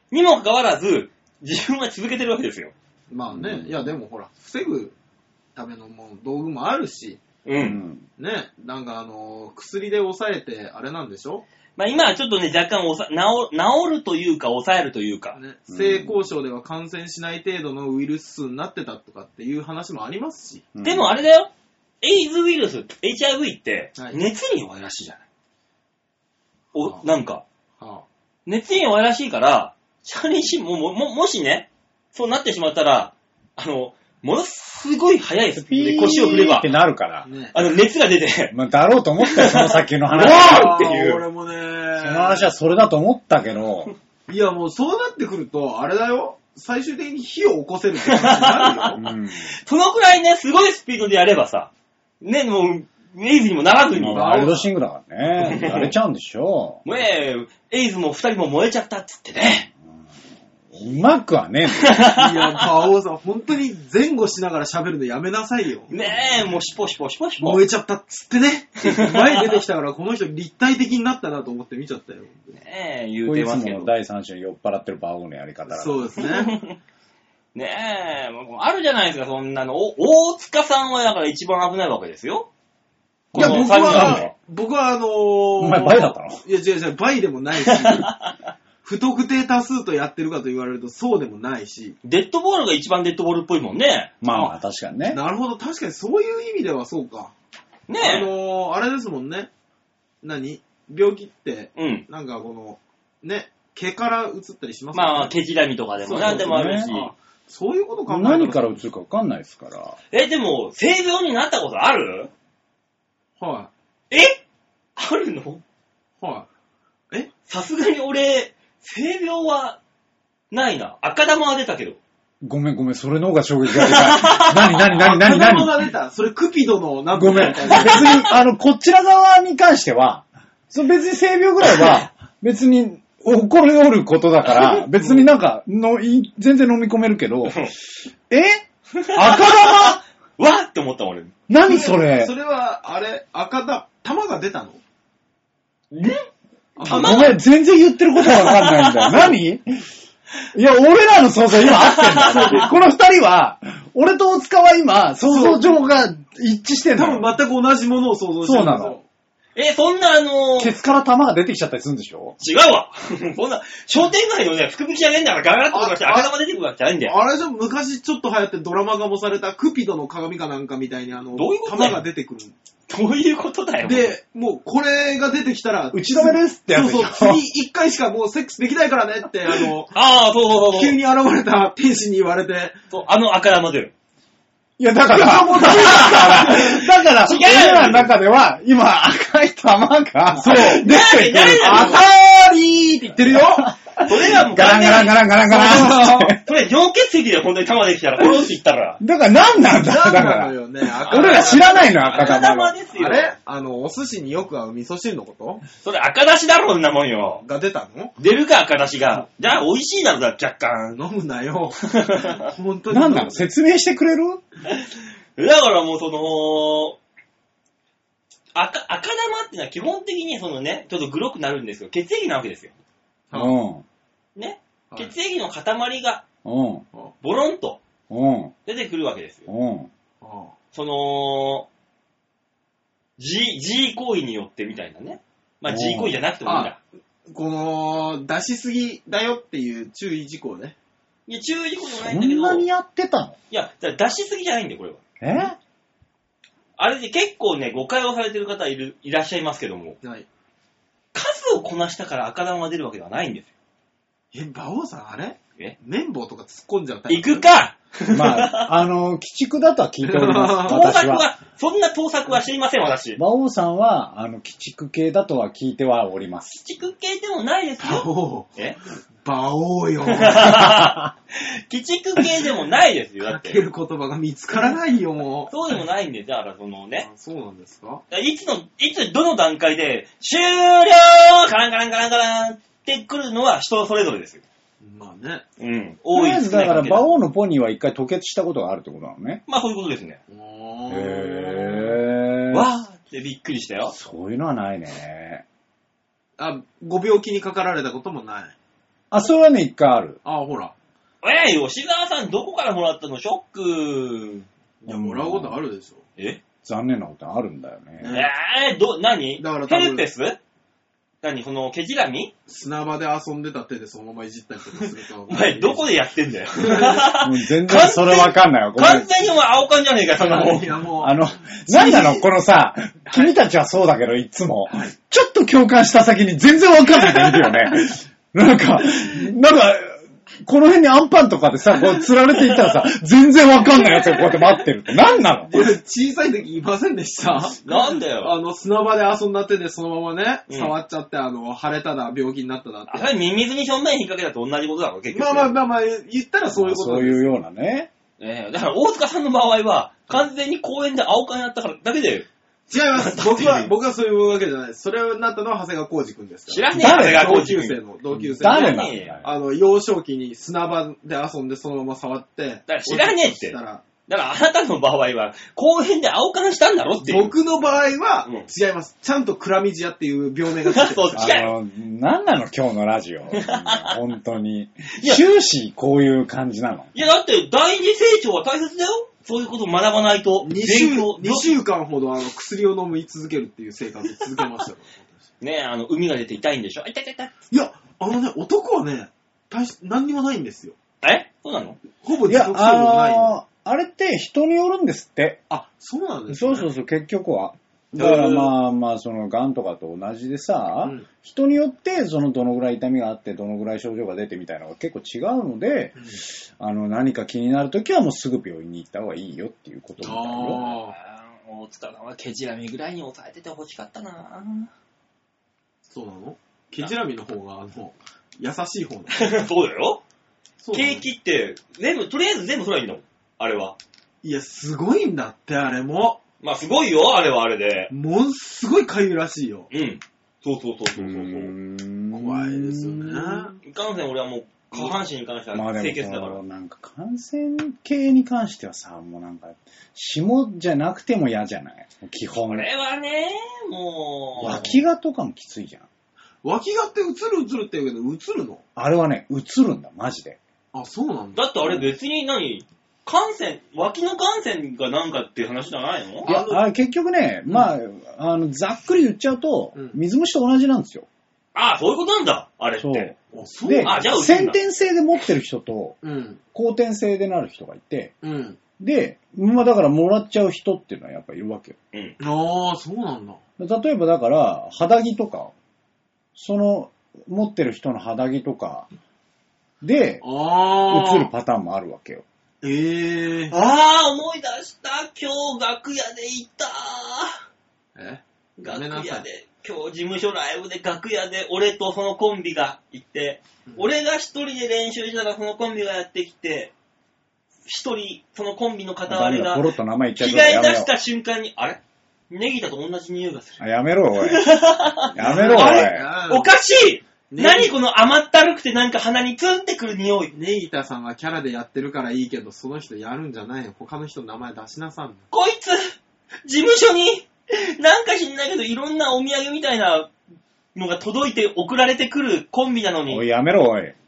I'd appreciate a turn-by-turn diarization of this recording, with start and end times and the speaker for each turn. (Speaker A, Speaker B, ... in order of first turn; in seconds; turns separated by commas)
Speaker A: 0.1-2.7, Speaker B: 3.1-4.9, Speaker C: 3.3-3.8, Speaker B: 5.5-7.2, Speaker A: 7.4-7.8, Speaker C: 7.6-8.1, Speaker B: 8.2-11.4, Speaker A: 11.8-15.4, Speaker B: 15.3-20.7, Speaker C: 15.7-16.1, Speaker C: 20.7-21.1, Speaker A: 20.8-21.5, Speaker A: 22.0-25.2, Speaker A: 26.7-27.4, Speaker B: 26.8-27.0, Speaker B: 27.8-28.1, Speaker A: 28.4-36.7, Speaker C: 35.5-37.3, Speaker B: 37.2-37.5, Speaker A: 37.5-38.5, Speaker C: 38.5-40.7, Speaker A: 39.2-41.2, Speaker B: 40.1-42.5, Speaker C: 42.0-43.9, Speaker B: 44.3-49.0, Speaker A: 48.1-49.0, Speaker C: 48.9-49.5, Speaker A: 49.6-54.4, Speaker C: 53.9-56.8, Speaker B: 54.1-54.7, Speaker A: 55.4-55.9, Speaker A: 56.8-59.7, Speaker C: 60.7-62.0, Speaker A: 61.8-62.6, Speaker B: 62.1-65.9, Speaker A: 65.9-67.6, Speaker B: 67.4-72.5, Speaker A: 68.8-69.6, Speaker A: 72.5-73.9, Speaker C: 73.2-76.1, Speaker B: 75.7-76.5, Speaker A: 76.2-76.8, Speaker A: 77.5-82.5, Speaker C: 83.3-84.3, Speaker A: 83.3-84.3, Speaker B: 83.3-88.1, Speaker C: 85.6-86.4, Speaker A: 87.6-88.3, Speaker B: 88.8-92.0, Speaker A: 92.0-94.1, Speaker C: 94.2-95.2, Speaker B: 95.1-97.3, Speaker A: 97.9-98.3, Speaker B: 98.0-99.5, Speaker B: 100.2-105.3, Speaker A: 101.8-102.0, Speaker A: 104.9-107.1, Speaker B: 106.0-108.8, Speaker C: 106.2-106.9, Speaker C: 108.1-110.0, Speaker A: 110.1-112.3, Speaker B: 113.4-113.7, Speaker A: 114.1-114.4, Speaker A: 115.0-115.6, Speaker B: 116.2-116.5, Speaker A: 117.5-119.8, Speaker A: 120.5-122.0, Speaker C: 122.4-125.8, Speaker A: 123.7-124.9, Speaker B: 125.0-128.3, Speaker C: 127.1-137.7, Speaker A: 127.7-128.1, Speaker A: 134.5-134.8, Speaker B: 135.0-135.3, Speaker A: 137.4-137.7, Speaker C: 138.3-140.0, Speaker A: 138.9-141.3, Speaker C: 141.5-142.3, Speaker B: 141.6-144.8, Speaker A: 145.9-146.2, Speaker B: 146.8-147.4, Speaker A: 146.8-147.3, Speaker C: 146.9-149.8, Speaker A: 148.2-149.3, Speaker C: 150.5-157.3, Speaker A: 151.6-152.7, Speaker B: 155.2-155.8, Speaker B: 156.9-159.0, Speaker C: 158.4-159.0, Speaker A: 159.6-160.7, Speaker C: 160.6-162.4, Speaker A: 162.4-167.1, Speaker B: 165.7-166.3, Speaker B: 167.0-172.5, Speaker A: 171.3-172.0, Speaker A: 172.9-174.1, Speaker B: 173.8-179.9, Speaker C: 175.9-177.4, Speaker A: 179.9-180.9, Speaker B: 180.6-182.8, Speaker A: 182.9-183.9, Speaker C: 184.8-192.0, Speaker B: 185.1-186.8, Speaker A: 185.6-188.1, Speaker B: 190.3-193.7, Speaker A: 190.6-192.0, Speaker C: 193.3-196.4, Speaker A: 194.0-195.3, Speaker B: 195.5-196.4, Speaker A: 196.4-199.0, Speaker C: 199.0-202.7, Speaker B: 199.6-202.4, Speaker A: 201.1-203.3, Speaker B: 202.9-205.6, Speaker A: 205.8-207.4, Speaker B: 207.4-208.1, Speaker A: 208.2-211.0, Speaker B: 210.9-213.5, Speaker A: 211.9-212.5, Speaker C: 212.9-214.4, Speaker A: 215.3-217.0, Speaker A: 218.5-222.7, Speaker B: 223.3-223.6, Speaker C: 223.3-223.8, Speaker A: 224.3-226.2, Speaker C: 226.4-226.8, Speaker A: 227.2-227.8, Speaker C: 228.1-228.5, Speaker A: 228.7-229.5, Speaker C: 229.5-229.9, Speaker B: 230.2-230.5, Speaker A: 230.7-231.7, Speaker A: 233.2-236.8, Speaker C: 235.7-236.2, Speaker B: 236.4-236.8, Speaker B: 237.3-240.7, Speaker A: 241.3-242.7, Speaker C: 241.9-243.4, Speaker A: 243.5-245.0, Speaker C: 245.2-245.6, Speaker A: 246.8-250.0, Speaker B: 250.0-250.3, Speaker A: 251.1-253.5, Speaker B: 254.3-257.5, Speaker A: 257.1-258.7, Speaker C: 258.1-261.3, Speaker B: 260.0-260.9, Speaker A: 260.7-263.2, Speaker C: 263.2-266.6, Speaker A: 266.6-268.8, Speaker B: 267.8-268.5, Speaker B: 269.2-270.7, Speaker A: 270.1-273.6, Speaker B: 273.2-275.5, Speaker A: 275.5-277.1, Speaker B: 277.0-278.0, Speaker A: 278.1-284.4, Speaker B: 284.8-285.4, Speaker A: 285.6-287.1, Speaker C: 286.1-289.4, Speaker A: 289.5-290.2, Speaker B: 290.3-292.0, Speaker C: 290.9-292.7, Speaker A: 292.5-293.9, Speaker C: 293.9-295.4, Speaker B: 296.4-298.5, Speaker C: 299.1-300.2, Speaker B: 300.2-300.7, Speaker A: 301.2-304.5, Speaker B: 304.8-306.0, Speaker C: 304.9-305.6, Speaker C: 306.6-308.1, Speaker B: 308.0-308.3, Speaker A: 308.1-310.4, Speaker B: 309.4-310.1, Speaker A: 311.2-312.3, Speaker B: 312.5-315.9, Speaker A: 315.3-320.8, Speaker B: 316.6-317.0, Speaker C: 317.1-319.1, Speaker B: 320.2-321.1, Speaker C: 321.0-335.7, Speaker B: 321.7-322.2, Speaker B: 335.4-343.1, Speaker A: 337.6-338.3, Speaker A: 340.5-340.7, Speaker A: 342.9-345.5, Speaker B: 345.1-347.3, Speaker C: 346.5-347.9, Speaker A: 348.2-352.3, Speaker B: 352.7-363.8, Speaker A: 352.9-353.7, Speaker A: 356.5-357.8, Speaker C: 356.7-357.4, Speaker C: 358.1-359.3, Speaker A: 358.4-359.2, Speaker A: 362.7-367.3, Speaker B: 367.0-371.3, Speaker A: 370.7-371.5, Speaker C: 371.1-376.9, Speaker A: 373.4-374.0, Speaker A: 374.9-375.2, Speaker A: 376.9-381.5, Speaker B: 380.4-385.1, Speaker A: 385.4-387.3, Speaker B: 387.5-390.8, Speaker A: 391.0-391.8, Speaker B: 392.0-393.3, Speaker C: 392.3-395.4, Speaker B: 395.5-396.7, Speaker C: 396.3-406.0, Speaker B: 398.0-398.5, Speaker B: 400.8-401.1, Speaker B: 405.9-406.2, Speaker C: 406.6-410.6, Speaker B: 410.0-410.9, Speaker A: 410.5-414.7, Speaker B: 415.9-419.3, Speaker A: 419.1-420.0, Speaker B: 420.6-421.0, Speaker A: 420.7-423.8, Speaker B: 424.2-426.2, Speaker A: 426.4-427.9, Speaker B: 427.9-429.7, Speaker A: 429.7-431.5, Speaker C: 431.0-433.5, Speaker B: 432.1-433.6, Speaker A: 433.6-436.4, Speaker C: 435.5-442.7, Speaker A: 442.5-444.8, Speaker B: 444.4-444.7, Speaker C: 444.4-445.9, Speaker B: 446.4-448.6, Speaker C: 448.8-450.4, Speaker B: 450.7-451.8, Speaker A: 451.3-456.3, Speaker B: 456.2-456.7, Speaker C: 456.2-461.1, Speaker B: 457.5-457.7, Speaker B: 459.7-460.0, Speaker A: 461.5-463.1, Speaker C: 462.8-466.0, Speaker B: 463.3-464.0, Speaker A: 463.8-464.6, Speaker B: 466.0-466.4, Speaker C: 466.5-468.1, Speaker B: 468.2-468.6, Speaker C: 468.8-471.8, Speaker B: 472.2-473.4, Speaker C: 473.6-475.5, Speaker C: 476.3-478.9, Speaker C: 479.8-480.2, Speaker B: 480.2-481.3, Speaker C: 480.9-482.2, Speaker B: 482.6-483.5, Speaker A: 483.5-487.4, Speaker B: 487.9-489.2, Speaker A: 488.6-496.7, Speaker A: 497.6-503.6, Speaker C: 499.1-500.9, Speaker C: 503.6-504.6, Speaker A: 504.2-510.3, Speaker C: 505.1-506.1, Speaker B: 505.1-506.5, Speaker B: 507.3-507.7, Speaker B: 510.3-515.2, Speaker A: 515.3-515.9, Speaker A: 516.4-520.1, Speaker A: 520.7-523.2, Speaker C: 523.1-523.9